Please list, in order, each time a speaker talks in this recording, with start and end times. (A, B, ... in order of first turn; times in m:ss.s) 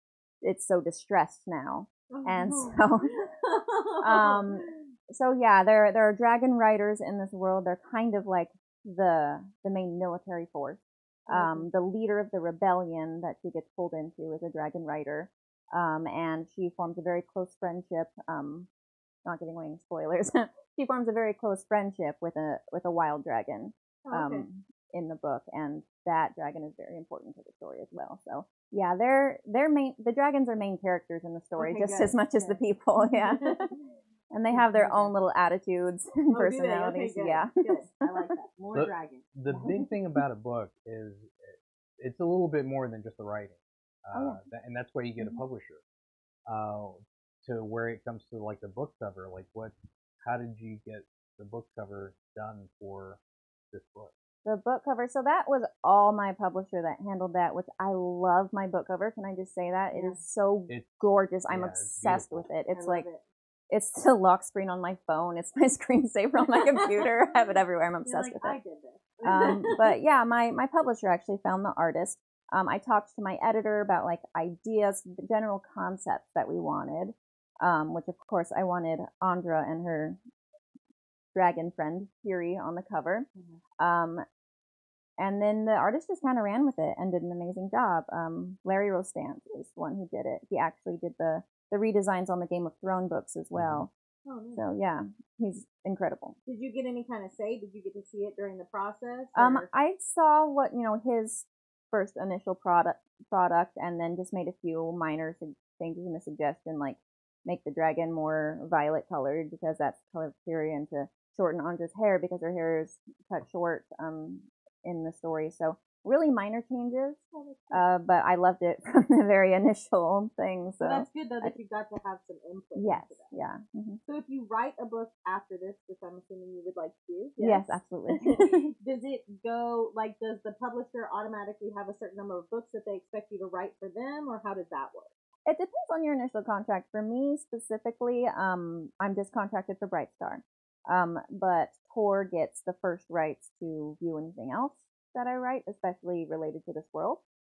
0:00.4-0:03.1 A
0:02.1-0:04.8 B
0:04.0-0:18.7 A
0:11.3-0:11.7 B
0:19.2-0:33.7 A
0:24.0-0:24.5 B
0:31.6-0:33.8 B
0:34.3-0:38.1 A
0:34.5-0:35.2 B
0:36.3-0:39.3 B
0:38.7-0:45.8 C
0:39.5-0:39.9 A
0:44.1-0:44.4 A
0:46.5-0:49.7 C
0:50.2-0:53.2 C
0:53.7-0:54.1 C
0:54.4-1:03.1 A
0:59.9-1:00.2 B
1:01.5-1:02.5 C
1:02.7-1:03.2 B
1:03.7-1:08.6 A
1:06.4-1:07.1 B
1:08.0-1:09.9 B
1:09.2-1:20.2 A
1:21.3-1:23.3 A
1:23.8-1:24.2 A
1:25.2-1:33.9 A
1:33.6-1:33.9 C
1:34.3-1:34.6 B
1:34.6-1:36.4 A
1:36.5-1:39.7 B
1:39.4-1:57.2 A
1:57.3-1:57.9 B
1:57.7-2:01.5 A
2:00.8-2:03.3 B
2:02.8-2:04.0 A
2:04.1-2:15.1 B
2:07.4-2:08.7 A
2:15.5-2:27.2 A